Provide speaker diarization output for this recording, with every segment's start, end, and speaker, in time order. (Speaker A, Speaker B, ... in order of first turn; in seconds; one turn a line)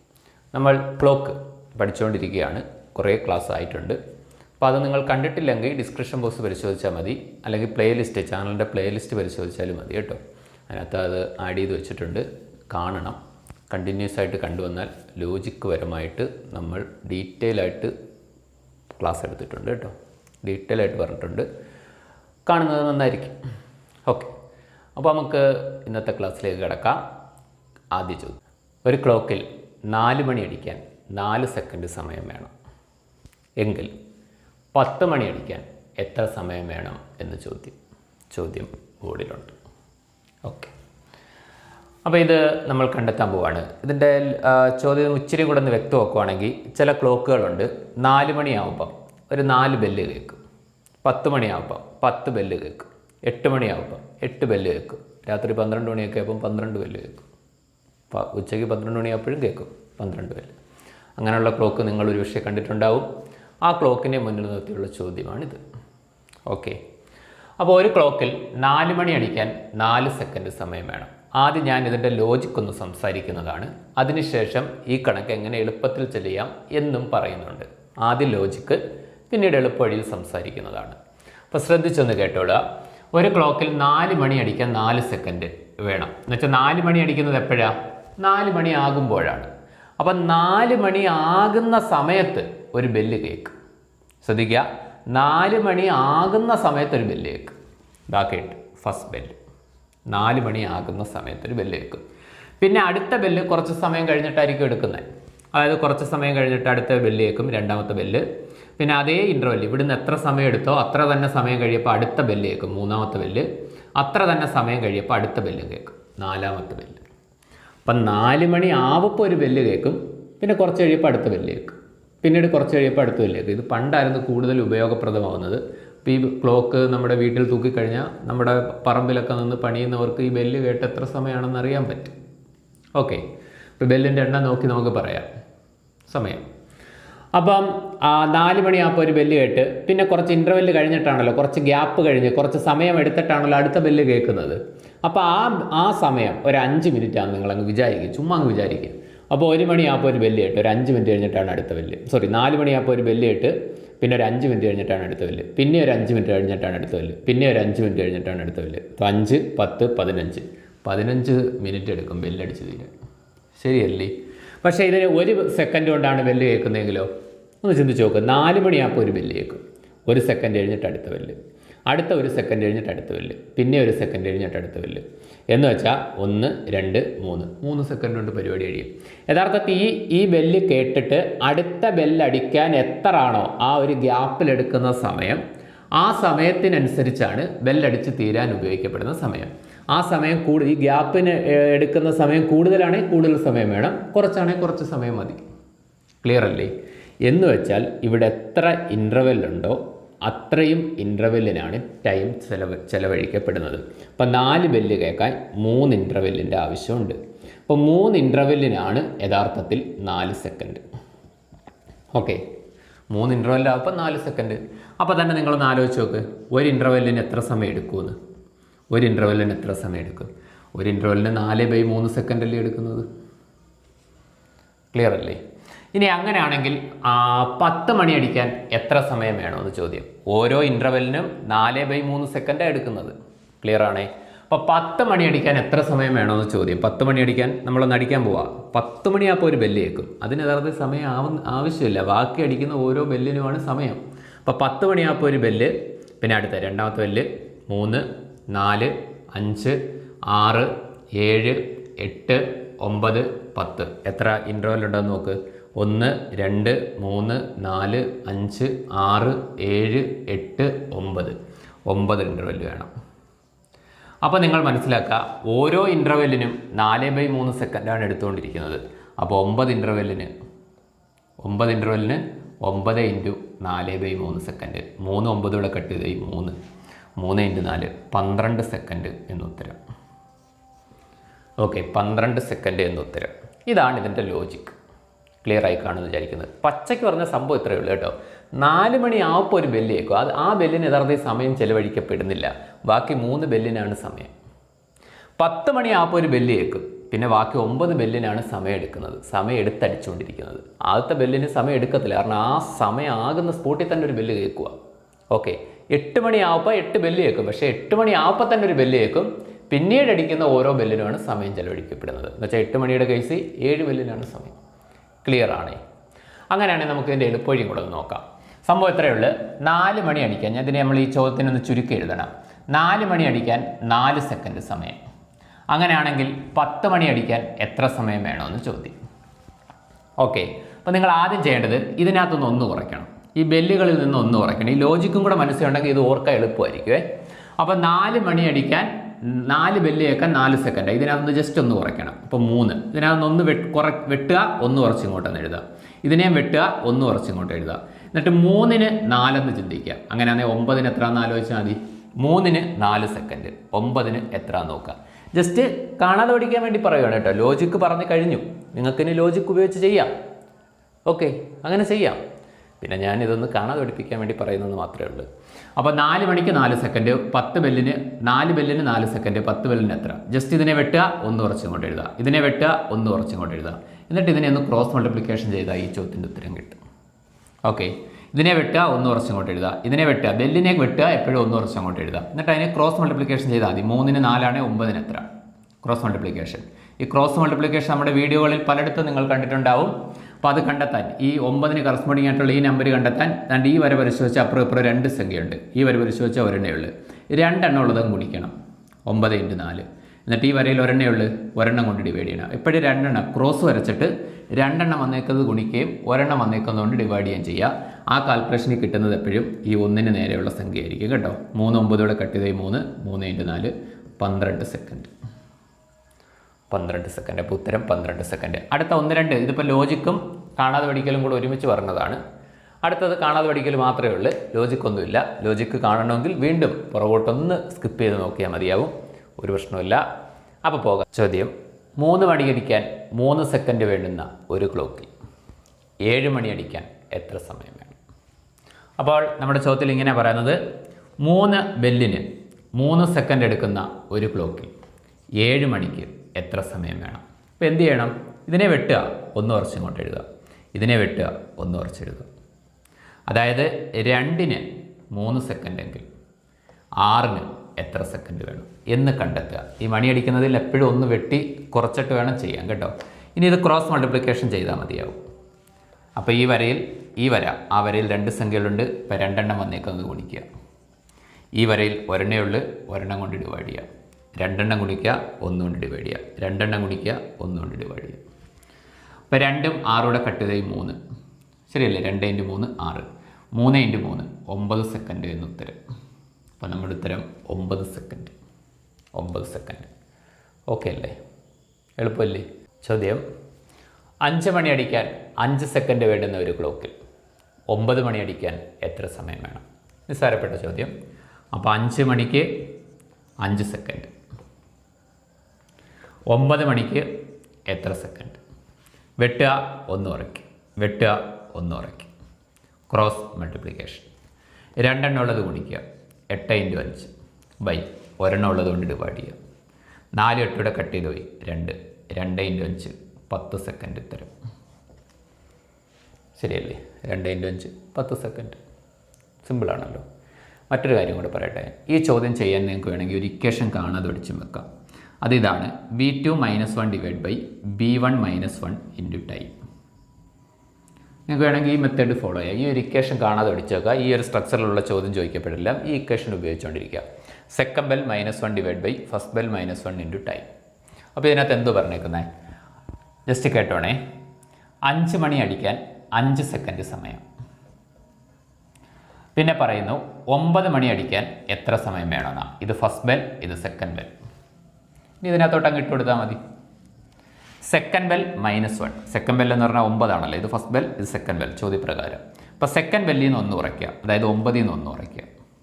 Speaker A: 0.5-4.0
Speaker A: 4.6-13.2
Speaker A: 13.7-17.9
Speaker A: 19.0-21.5
Speaker A: 22.5-23.4
Speaker A: 24.1-24.3
Speaker A: 25.0-27.0
Speaker A: 27.9-32.5
Speaker A: 33.6-33.9
Speaker A: 34.7-37.8
Speaker A: 38.3-39.5
Speaker A: 40.5-40.7
Speaker A: 42.0-50.4
Speaker A: 51.0-57.3
Speaker A: 58.1-60.5
Speaker A: 61.2-63.1
Speaker A: 63.6-65.6
Speaker A: 66.5-66.8
Speaker A: 67.6-78.8
Speaker A: 79.3-81.0
Speaker A: 81.5-82.6
Speaker A: 83.1-93.5
Speaker A: 94.2-97.5
Speaker A: 98.1-99.4
Speaker A: 100.1-102.0
Speaker A: 102.6-108.2
Speaker A: 108.8-117.0
Speaker A: 117.9-132.1
Speaker A: 133.0-133.2
Speaker A: 133.8-135.3
Speaker A: 136.1-136.4
Speaker A: 137.3-162.9
Speaker A: 163.6-167.1
Speaker A: 167.6-171.4
Speaker A: 171.9-185.4
Speaker A: 186.0-195.4
Speaker A: 196.2-196.7
Speaker A: 197.3-207.2
Speaker A: 207.7-210.8
Speaker A: 212.1-212.4
Speaker A: 213.1-218.2
Speaker A: 218.9-223.1
Speaker A: 224.9-225.4
Speaker A: 225.9-249.8
Speaker A: 250.3-261.4
Speaker A: 261.9-262.9
Speaker A: 264.2-270.3
Speaker A: 271.4-276.6
Speaker A: 277.2-279.8
Speaker A: 281.6-284.8
Speaker A: 285.4-294.3
Speaker A: 295.4-304.8
Speaker A: 305.3-314.6
Speaker A: 315.2-315.8
Speaker A: 316.5-325.0
Speaker A: 325.7-328.9
Speaker A: 330.2-337.1
Speaker A: 337.6-360.1
Speaker A: 361.1-362.2
Speaker A: 362.8-365.3
Speaker A: 365.8-376.8
Speaker A: 377.6-385.3
Speaker A: 385.8-398.5
Speaker A: 399.1-415.1
Speaker A: 416.7-422.2
Speaker A: 422.8-430.0
Speaker A: 430.6-435.1
Speaker A: 436.1-438.0
Speaker A: 439.0-440.6
Speaker A: 441.2-444.7
Speaker A: 445.4-452.3
Speaker A: 453.3-456.1
Speaker A: 457.0-465.2
Speaker A: 466.2-470.5
Speaker A: 471.6-473.9
Speaker A: 474.4-478.2
Speaker A: 479.3-481.0
Speaker A: 481.7-485.8
Speaker A: 486.6-488.3
Speaker A: 489.1-489.9
Speaker A: 490.7-491.1
Speaker A: 492.0-493.2
Speaker A: 494.2-496.9
Speaker A: 497.7-500.9
Speaker A: 501.5-502.5
Speaker A: 503.4-504.1
Speaker A: 506.3-507.1
Speaker A: 507.7-508.4
Speaker A: 509.2-512.1
Speaker A: 512.9-514.1
Speaker A: 514.8-519.4
Speaker A: 520.2-524.3
Speaker A: 526.4-528.6
Speaker A: 529.4-530.0
Speaker A: 530.7-534.6
Speaker A: 535.2-539.5
Speaker A: 541.3-550.5
Speaker A: 551.2-552.3
Speaker A: 553.3-554.0
Speaker A: 554.9-557.2
Speaker A: 559.4-564.1
Speaker A: 565.2-566.4
Speaker A: 567.6-575.3